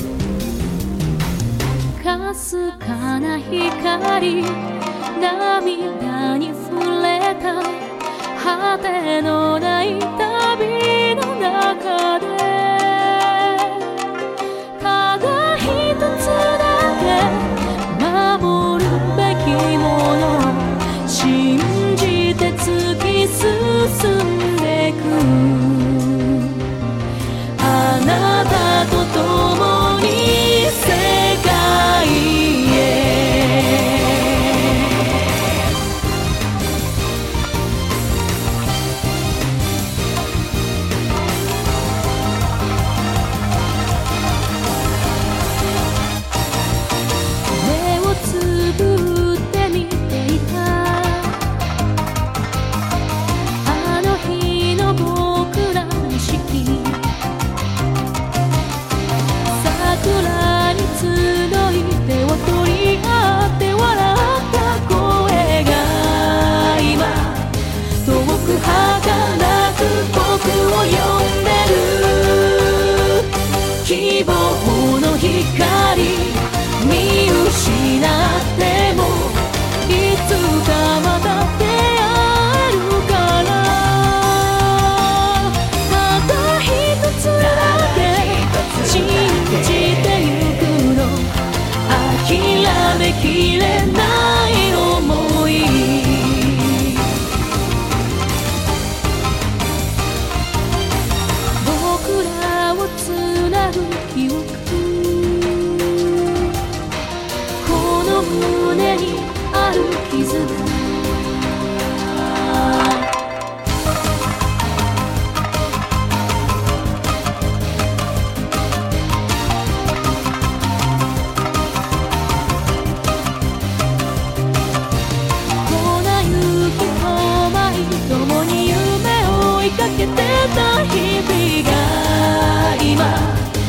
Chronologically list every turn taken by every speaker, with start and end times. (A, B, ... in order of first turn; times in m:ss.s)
0:02.0-0:13.9 A
0:14.8-0:26.6 A
0:27.6-0:34.8 A
0:47.5-0:51.4 A
0:53.6-0:57.0 A
0:59.5-1:13.3 A
1:13.8-1:31.3 A
1:31.9-1:37.0 A
1:41.6-1:46.1 A
1:47.6-1:51.0 A
1:52.2-1:53.0 A
2:05.6-2:13.5 A